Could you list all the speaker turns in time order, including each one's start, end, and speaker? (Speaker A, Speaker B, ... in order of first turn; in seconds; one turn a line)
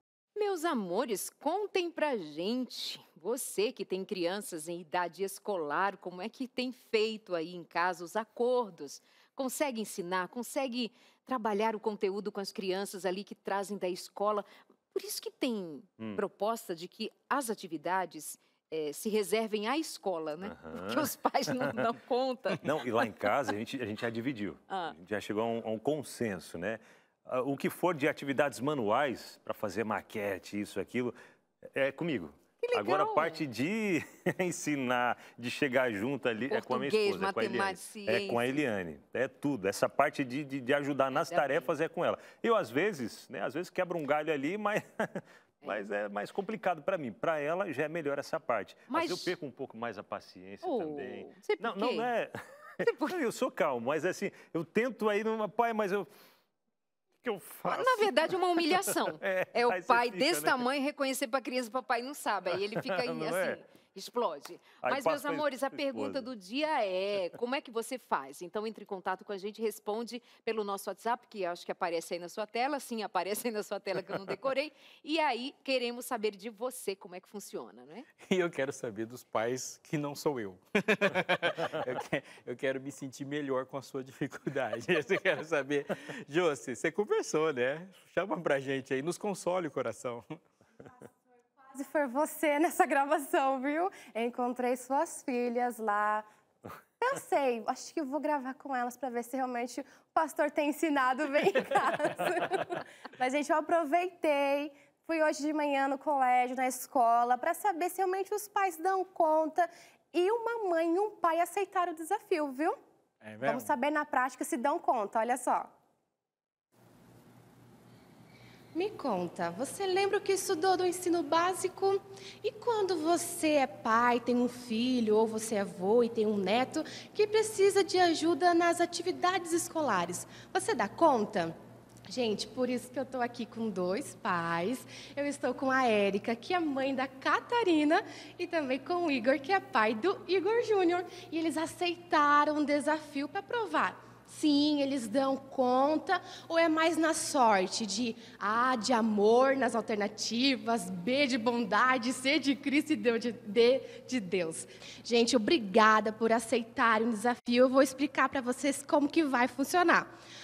Speaker A: 0.3-22.8
Speaker B: 20.4-21.1
Speaker B: 22.6-56.1
Speaker A: 24.7-24.9
Speaker A: 32.6-33.4
Speaker A: 36.5-38.6
Speaker A: 41.1-41.7
Speaker A: 48.9-49.4
Speaker A: 50.6-52.1
Speaker A: 52.8-53.2
Speaker B: 57.2-60.6
Speaker A: 57.6-78.1
Speaker B: 62.7-63.6
Speaker B: 64.8-66.3
Speaker C: 78.2-90.4
Speaker D: 91.7-96.2
Speaker D: 97.0-112.7
Speaker C: 113.2-113.7
Speaker D: 113.4-115.7
Speaker D: 118.7-131.6
Speaker D: 132.1-160.1